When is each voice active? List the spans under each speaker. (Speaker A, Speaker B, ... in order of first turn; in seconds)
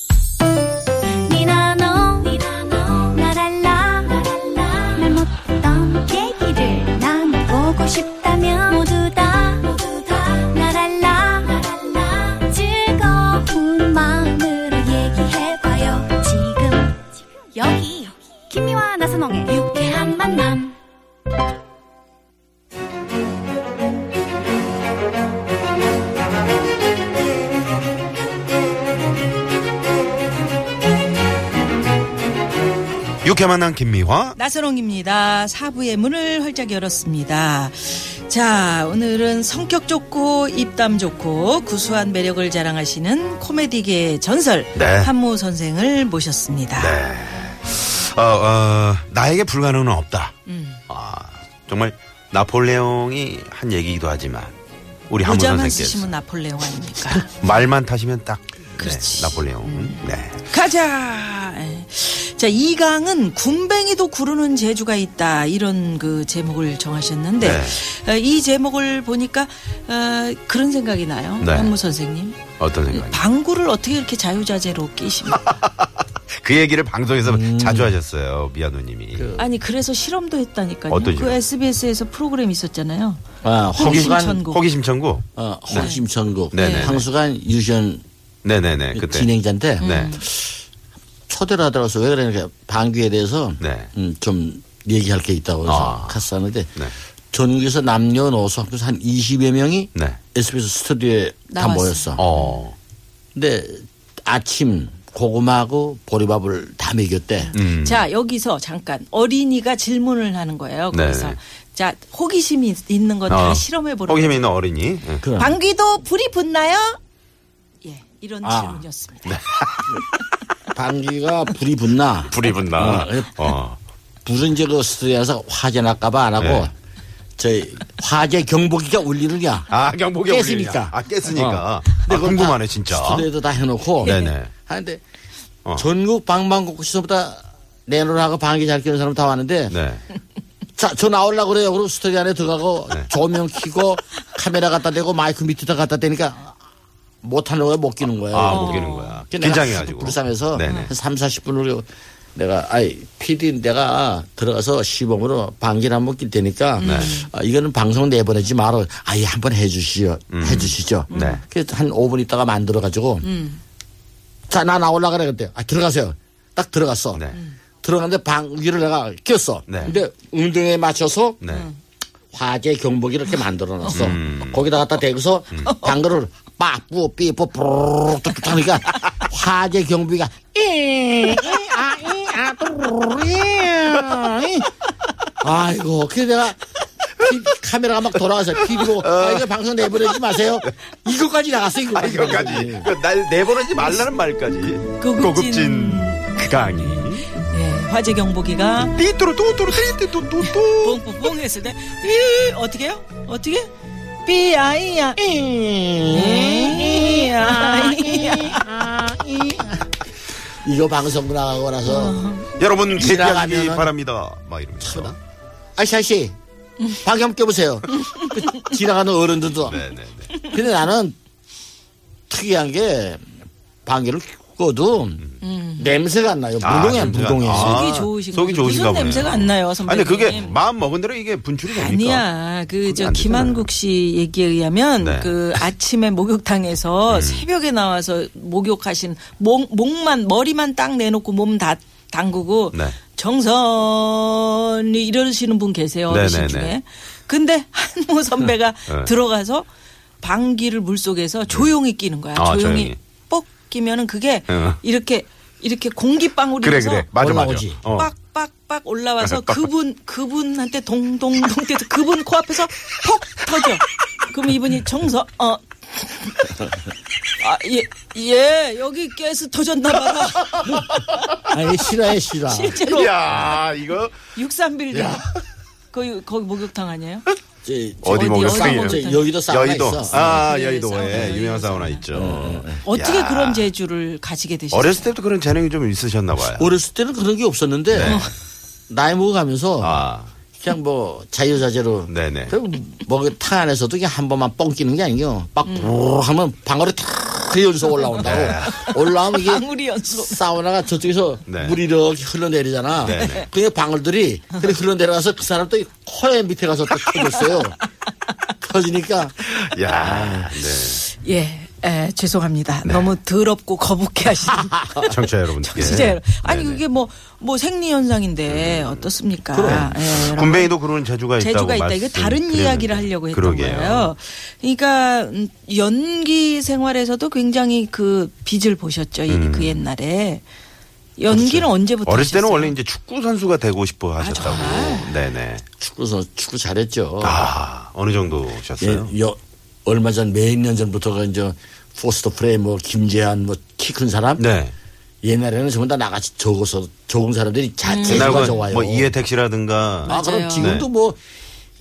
Speaker A: 1.2-20.7
Speaker B: 33.2-34.3, 44.7-45.1, 46.8-50.3, 50.9-54.5, 55.1-56.1, 57.2-60.4, 67.4-67.8, 71.4-71.7, 72.6-73.2, 75.5-79.3, 80.9-81.4, 83.8-85.9, 86.5-87.0, 88.4-90.2, 93.6-93.9, 95.7-96.2, 102.2-102.7, 107.5-108.0, 110.9-111.4, 113.3-115.2, 119.2-120.0, 122.3-123.8, 126.4-126.7, 129.7-133.2, 134.0-134.5, 139.7-140.0, 148.3-150.9, 156.8-157.1, 160.3-161.4, 169.7-169.9, 171.4-171.7, 173.9-174.6, 188.6-189.4, 190.1-190.7, 191.9-197.3, 198.9-201.3, 212.6-215.2, 219.6-220.3, 226.6-232.3, 232.8-233.7, 235.0-235.6, 237.1-237.4, 246.1-246.7, 252.3-253.0, 254.5-254.8, 256.6-258.1, 259.2-259.6, 270.2-271.4, 272.8-274.2, 274.9-275.2, 278.0-283.7, 284.7-286.8, 287.9-288.3, 289.8-290.3, 292.1-292.6, 298.2-298.9, 301.5-301.8, 303.0-303.5, 309.6-311.0, 312.8-313.1, 315.0-316.8, 318.5-319.1, 319.8-324.1, 329.3-329.8, 331.5-335.6, 337.2-339.1, 344.4-344.7, 348.1-350.9
Speaker C: 34.3-47.0, 50.5-50.8, 55.2-57.3, 58.8-75.6, 79.4-83.2, 83.8-84.6, 85.7-86.0, 86.5-87.0, 89.8-90.2, 101.5-102.5, 107.5-114.4, 115.3-117.0, 117.8-119.3, 134.0-134.3, 148.5-149.2, 150.7-150.9, 156.8-157.3, 161.1-161.4, 163.2-163.6, 171.5-171.8, 173.8-174.1, 175.7-176.0, 195.0-199.0, 200.4-203.7, 204.2-205.2, 206.1-208.6, 211.8-212.5, 225.4-225.9, 227.4-230.6, 231.6-249.7, 250.2-257.1, 257.9-266.6, 267.4-270.9, 272.4-273.4, 274.3-275.2, 275.9-277.2, 278.1-279.3, 280.1-282.1, 282.8-285.1, 288.0-288.3, 298.0-300.4, 307.1-307.6, 310.9-320.7, 321.4-330.4, 331.2-332.8, 334.2-335.1, 347.8-348.6, 350.1-350.8
Speaker D: 77.2-78.0, 79.1-79.5, 83.4-84.4, 85.3-88.0, 88.9-90.6, 91.3-96.8, 97.3-102.2, 103.3-107.5, 115.2-115.6, 118.4-118.8, 120.7-123.5, 124.2-126.7, 127.4-129.7, 130.3-135.0, 135.8-139.8, 140.8-146.6, 147.2-163.3, 164.5-167.2, 167.8-171.4, 172.3-184.7, 185.4-192.9, 205.2-209.9, 210.6-212.2, 212.9-213.9, 214.8-215.1, 215.8-216.3, 216.9-219.8, 220.4-221.2, 222.3-223.2, 223.8-225.2, 225.8-227.9, 257.2-257.8, 271.5-272.8, 277.6-280.5, 282.1-282.8, 286.5-288.3, 288.9-290.0, 290.6-307.8, 308.6-310.6, 319.5-319.9, 331.3-331.7, 335.8-337.5, 338.8-344.4, 345.2-349.1, 350.0-351.2